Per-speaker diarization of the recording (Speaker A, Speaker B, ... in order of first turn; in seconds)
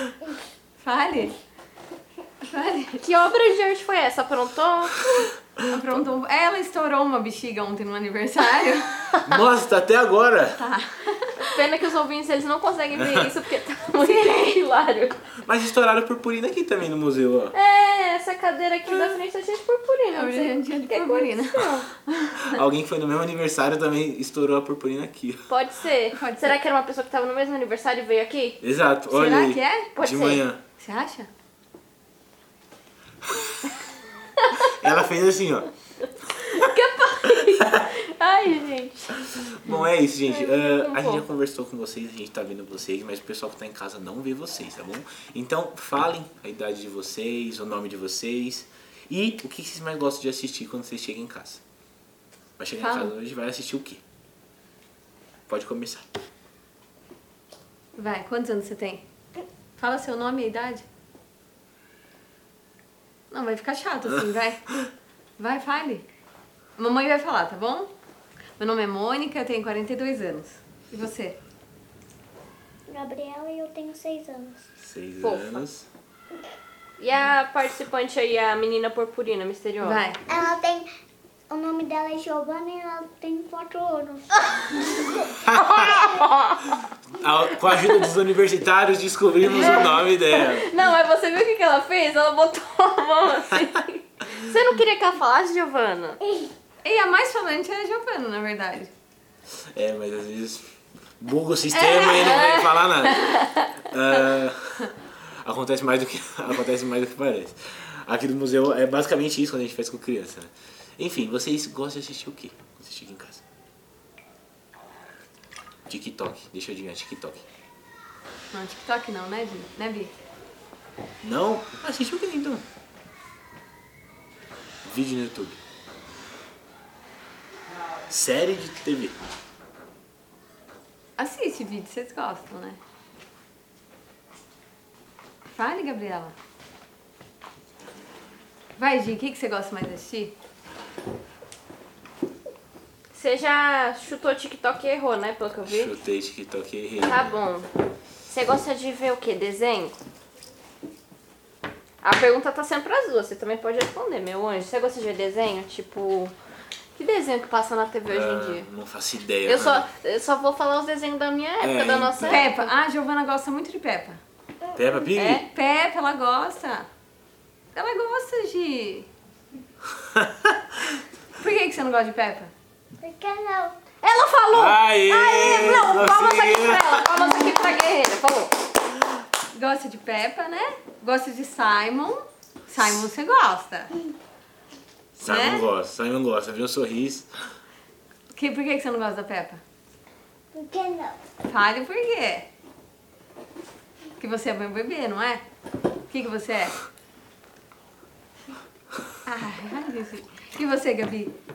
Speaker A: 0.8-1.4, 2.4-3.0, 5.7-9.0, 10.6-11.6, 14.0-14.4, 20.1-22.6, 26.2-26.6, 29.1-29.9, 30.8-31.3, 52.8-53.1, 58.0-59.0, 59.8-60.9, 63.3-64.7, 65.4-66.1, 66.8-67.9, 68.6-71.4, 79.8-80.2, 96.8-98.9, 101.7-103.1, 118.5-120.1, 131.2-132.8, 135.5-136.3, 138.8-140.3, 162.2-164.2, 165.4-166.9, 167.7-169.1, 171.4-172.5, 177.2-177.8, 179.5-183.9, 185.2-185.7, 188.3-189.6, 191.5-192.5, 194.2-195.4, 196.1-196.8, 199.3-201.3
Speaker B: 3.0-5.3, 11.4-15.3, 17.5-21.9, 25.5-28.6, 29.9-30.4, 34.4-34.9, 36.3-39.6, 40.3-41.2, 75.2-75.6, 77.0-80.1, 85.6-86.8, 89.5-96.2, 103.0-103.5, 143.1-145.9, 147.0-147.7, 148.3-150.0, 152.0-156.3, 157.0-158.7, 159.5-162.7, 165.2-165.4, 174.0-178.5
Speaker C: 9.2-10.6, 13.0-13.3, 15.4-17.6, 22.4-25.5, 28.6-30.6, 34.6-35.7, 37.5-37.9, 39.3-51.6, 52.6-54.0, 55.5-56.0, 74.8-75.9, 85.4-86.2, 87.1-90.7, 99.7-100.7, 101.2-113.4, 115.9-117.4, 121.2-122.7, 124.8-125.6, 128.1-129.2, 145.7-147.4, 158.1-159.9, 161.6-162.5, 164.8-165.4, 170.1-170.6, 174.5-177.1, 185.2-187.3
Speaker D: 72.9-74.6, 80.3-80.9, 81.5-86.1, 173.0-173.8, 190.5-191.2